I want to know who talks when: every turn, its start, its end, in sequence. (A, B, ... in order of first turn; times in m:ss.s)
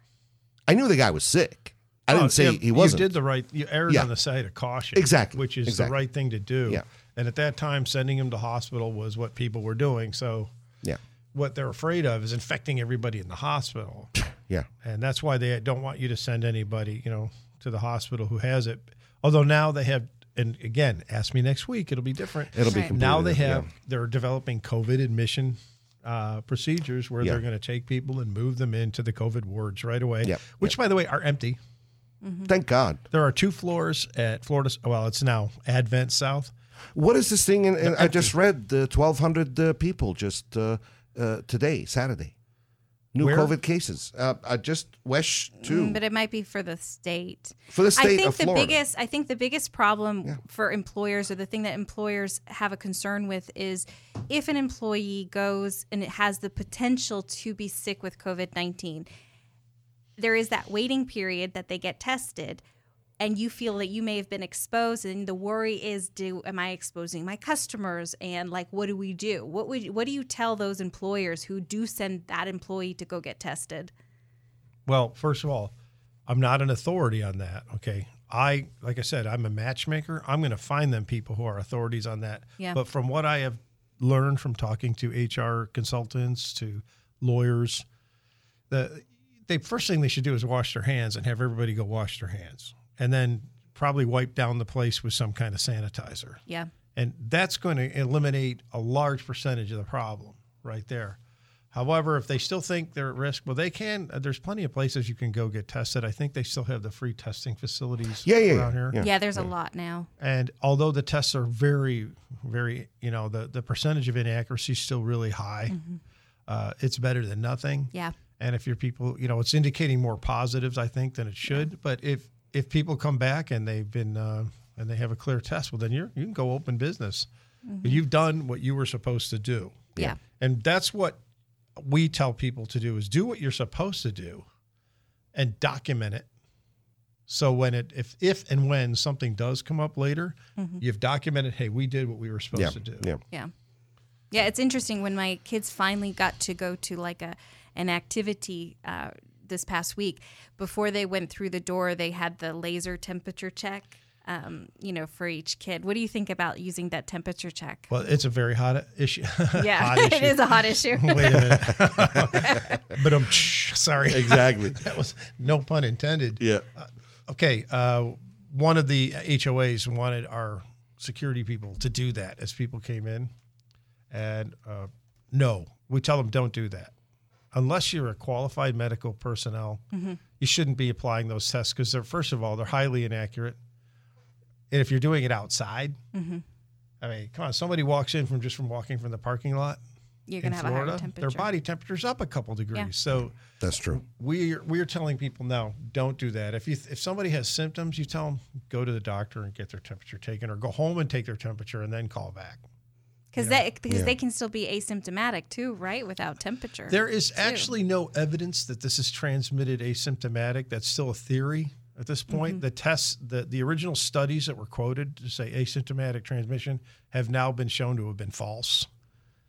0:00.7-0:03.1 A
0:02.1-0:10.5 B
0:05.0-0:06.0 A
0:11.3-0:14.1 B
0:14.8-0:31.6 B
0:22.5-0:23.7 A
0:30.2-0:30.7 A
0:32.2-0:32.5 C
0:32.5-0:33.0 A
0:33.1-0:36.5 B
0:37.0-0:42.3 A
0:37.8-0:38.3 B
0:43.1-0:46.0 A
0:43.2-0:43.5 B
0:45.6-0:59.1 C
0:47.7-0:48.8 A
1:00.2-1:02.6 C
1:03.2-1:13.9 C
1:14.9-1:15.7 B
1:16.3-1:27.8 B
1:28.7-1:36.4 B
1:37.0-1:41.2 B
1:41.7-1:49.0 B
1:48.2-1:49.5 A
1:49.0-1:50.1 C
1:50.2-1:55.8 B
1:55.7-1:56.0 C
1:56.5-2:07.3 B
2:07.6-2:08.0 C
2:07.8-2:11.2 B
2:11.8-2:14.5 B
2:15.4-2:16.2 B
2:17.3-2:23.1 B
2:20.6-2:20.8 C
2:22.5-2:23.2 A
2:24.3-2:37.9 C
2:37.9-2:53.3 B
2:39.6-2:41.7 C
2:42.0-2:42.2 A
2:42.3-2:42.7 C
2:44.1-2:44.8 A
2:54.1-2:56.9 B
2:57.5-2:59.8 B
2:59.9-3:00.2 C
3:00.4-3:03.6 B
3:04.7-3:06.0 B
3:06.1-3:06.4 C
3:07.0-3:09.8 B
3:10.3-3:11.5 C
3:10.4-3:13.4 B
3:13.6-3:14.0 A
3:13.9-3:22.6 B
3:23.3-3:27.7 C
3:23.4-3:23.6 B
3:23.9-3:24.1 A
3:26.9-3:38.9 B
3:32.3-3:32.6 C